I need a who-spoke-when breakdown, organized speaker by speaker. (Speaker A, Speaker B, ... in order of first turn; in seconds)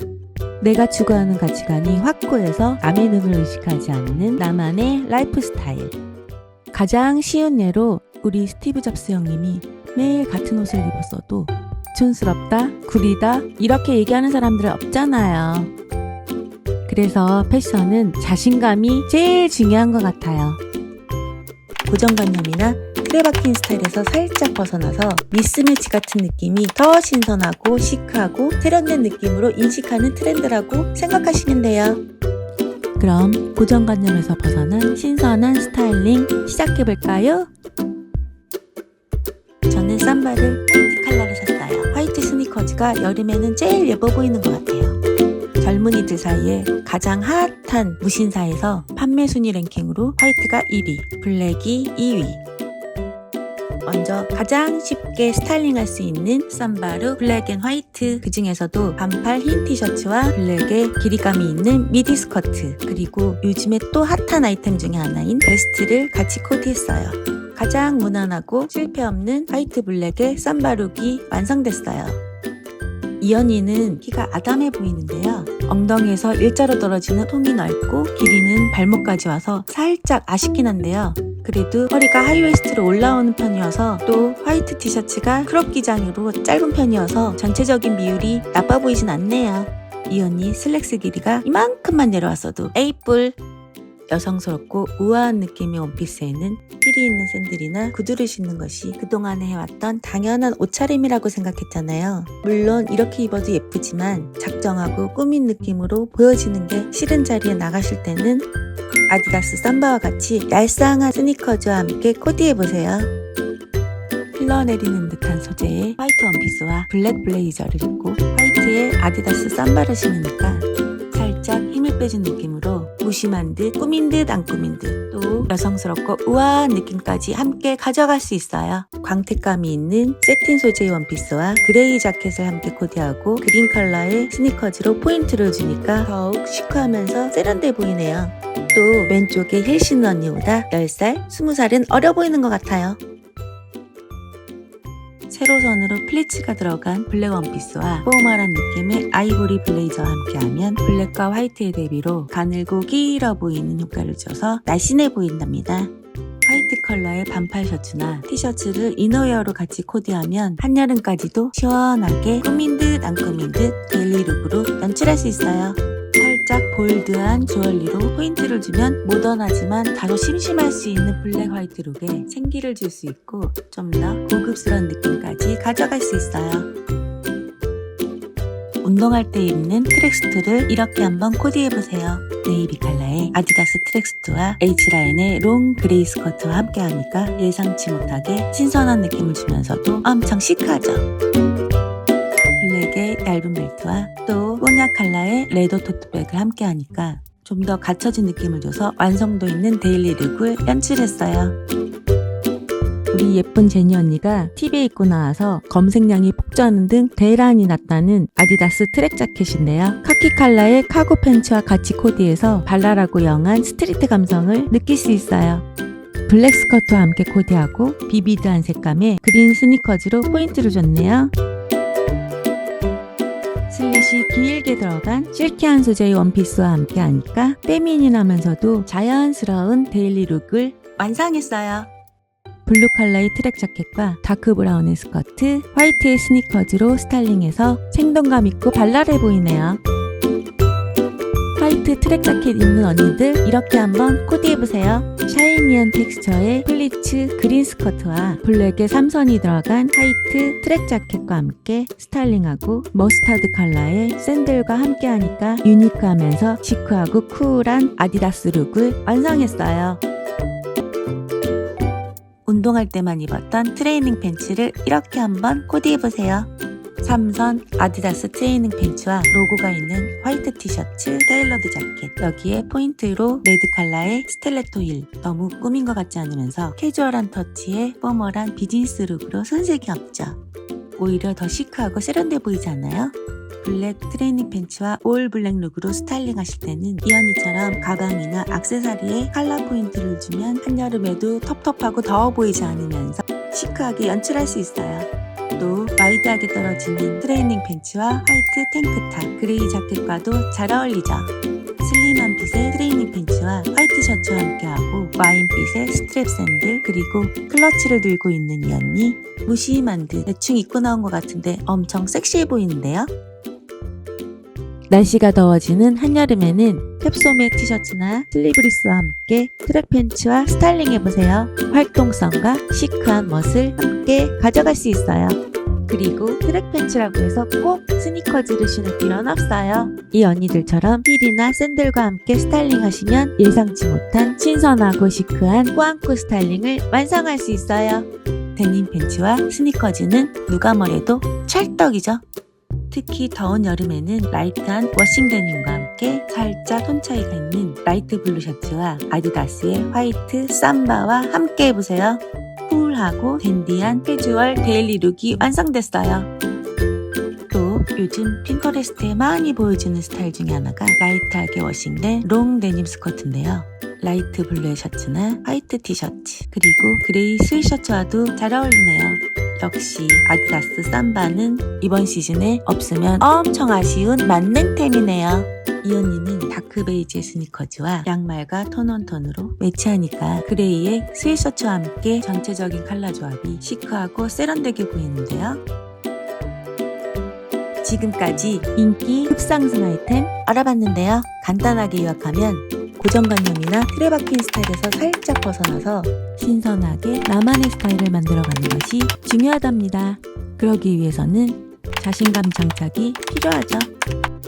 Speaker A: 0.6-5.9, 6.7-15.7, 16.9-20.6, 21.9-32.0, 33.0-37.5, 39.7-45.0, 45.6-52.4, 53.9-72.2, 73.2-93.4, 94.1-108.5, 109.1-113.1, 114.3-143.0, 145.3-155.9, 156.5-176.7, 178.8-191.0, 192.6-201.5, 203.1-215.6, 216.3-221.3, 223.7-231.9, 232.7-239.8, 241.6-260.0, 262.5-266.5, 267.0-280.4, 281.0-301.3, 301.8-313.1, 314.9-342.2, 342.9-356.3, 357.5-385.6, 387.8-403.9